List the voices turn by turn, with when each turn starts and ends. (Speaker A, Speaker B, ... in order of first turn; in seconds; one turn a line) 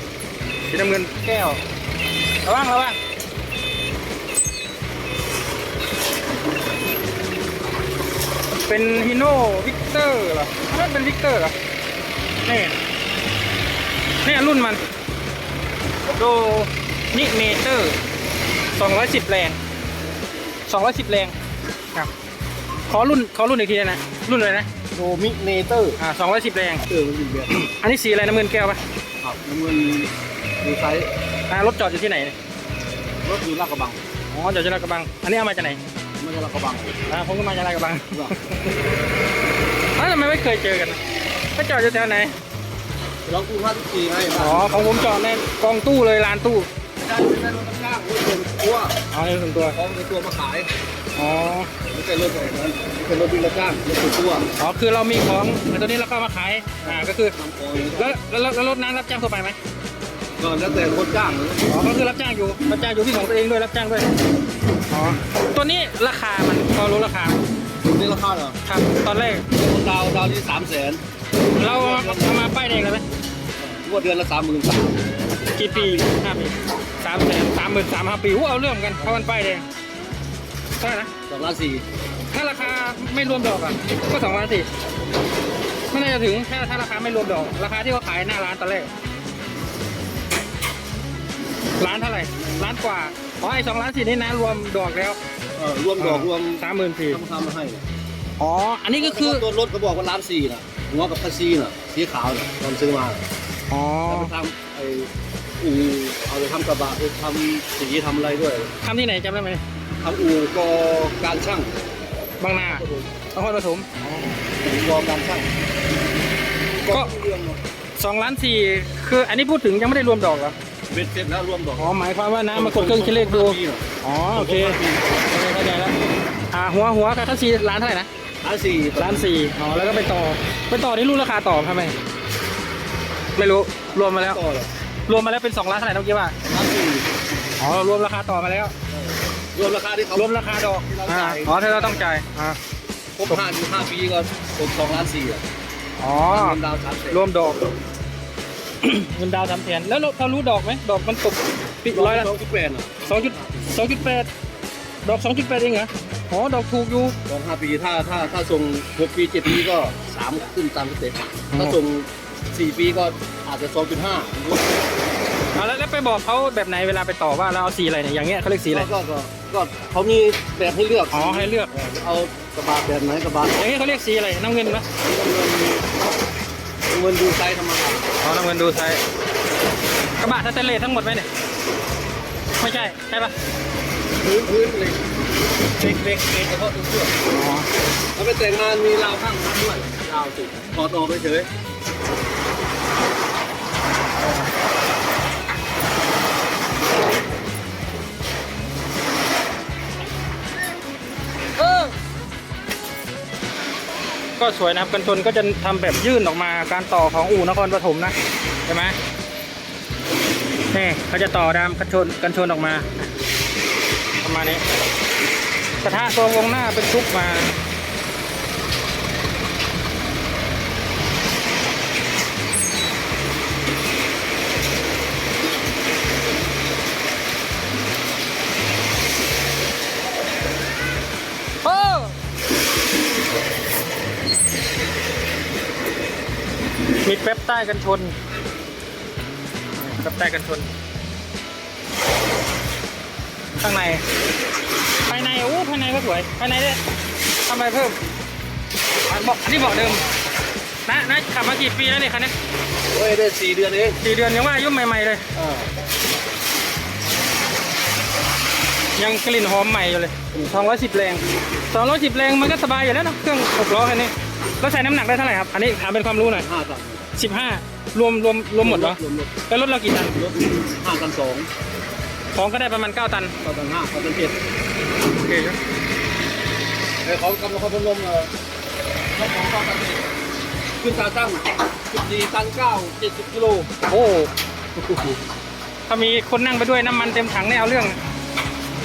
Speaker A: 0.7-1.6
Speaker A: 2.4-3.0
Speaker A: 8.7-11.5
Speaker A: 12.4-12.7
Speaker A: 14.2-14.8
Speaker A: 16.1-17.9
Speaker A: 18.7-19.6
Speaker A: 20.7-21.3
Speaker A: 22.9-24.7
Speaker B: 24.9-26.0
Speaker A: 26.0-26.9
Speaker B: 26.9-27.5
Speaker A: 27.6-28.8
Speaker B: 29.2-31.1
Speaker A: 31.5-32.3
Speaker B: 33.2-34.0
Speaker A: 34.3-35.8
Speaker B: 36.2-37.0
Speaker A: 37.1-38.7
Speaker A: 39.9-41.0
Speaker A: 41.5-42.3
Speaker B: 43.2-45.1
Speaker A: 44.3-46.7
Speaker B: 47.0-48.9
Speaker A: 49.1-49.8
Speaker B: 49.7-50.7
Speaker A: 51.1-51.7
Speaker B: 51.8-54.5
Speaker A: 54.6-57.3
Speaker B: 56.8-58.1
Speaker A: 58.0-59.6
Speaker B: 60.4-61.7
Speaker A: 61.7-64.1
Speaker A: 64.9-67.4
Speaker B: 67.8-68.6
Speaker A: 68.6-69.5
Speaker B: 69.5-71.0
Speaker B: 71.5-72.4
Speaker A: 71.5-73.0
Speaker B: 73.6-75.0
Speaker A: 75.5-79.6
Speaker B: 75.7-76.1
Speaker A: 80.8-81.1
Speaker B: 81.3-81.8
Speaker A: 82.3-84.7
Speaker A: 85.9-88.9
Speaker A: 91.8-95.2
Speaker B: 92.3-92.7
Speaker B: 95.5-97.8
Speaker A: 96.0-97.2
Speaker A: 98.4-99.4
Speaker B: 99.0-103.2
Speaker A: 103.7-104.3
Speaker B: 104.1-108.7
Speaker A: 108.8-109.6
Speaker B: 110.0-111.7
Speaker A: 112.4-114.3
Speaker B: 112.7-113.1
Speaker B: 114.6-115.5
Speaker B: 116.8-117.6
Speaker A: 118.0-120.5
Speaker B: 120.9-121.9
Speaker A: 121.8-125.9
Speaker B: 122.5-125.2
Speaker A: 126.5-128.1
Speaker B: 128.4-129.3
Speaker A: 129.0-131.9
Speaker A: 133.3-134.4
Speaker B: 134.1-134.7
Speaker A: 135.1-136.3
Speaker B: 136.5-137.1
Speaker A: 137.6-138.7
Speaker B: 138.9-142.1
Speaker A: 140.2-142.6
Speaker B: 143.2-145.4
Speaker A: 146.0-146.6
Speaker B: 146.3-147.2
Speaker A: 147.1-147.7
Speaker A: 148.8-152.3
Speaker B: 151.9-153.7
Speaker A: 153.0-154.3
Speaker A: 155.0-157.2
Speaker B: 157.2-164.7
Speaker A: 161.5-161.8
Speaker A: 165.5-168.9
Speaker B: 168.7-173.7
Speaker A: 171.1-171.7
Speaker A: 173.6-174.8
Speaker B: 175.0-175.8
Speaker B: 176.9-178.1
Speaker A: 178.2-179.0
Speaker A: 180.2-181.3
Speaker A: 182.6-183.3
Speaker B: 184.2-185.0
Speaker B: 185.7-187.1
Speaker A: 187.3-187.7
Speaker B: 188.1-191.5
Speaker A: 201.6-201.9
Speaker A: 204.4-208.1
Speaker A: 208.7-209.0
Speaker A: 210.7-213.0
Speaker A: 214.2-214.6
Speaker A: 215.8-217.5
Speaker A: 231.6-232.1
Speaker A: 237.0-238.1
Speaker A: 239.8-240.7
Speaker A: 243.6-244.0
Speaker A: 245.0-246.8
Speaker A: 247.4-248.0
Speaker A: 249.1-250.1
Speaker A: 250.8-252.3
Speaker B: 252.9-254.0
Speaker A: 254.0-255.3
Speaker B: 255.3-255.7
Speaker A: 259.0-266.5
Speaker B: 266.3-267.1
Speaker A: 267.1-270.2
Speaker B: 268.6-269.3
Speaker B: 270.1-271.5
Speaker A: 272.3-273.3
Speaker B: 273.4-274.4
Speaker A: 275.1-275.6
Speaker B: 277.0-278.3
Speaker B: 279.1-280.0
Speaker B: 280.8-283.7
Speaker A: 283.8-284.3
Speaker A: 285.9-288.0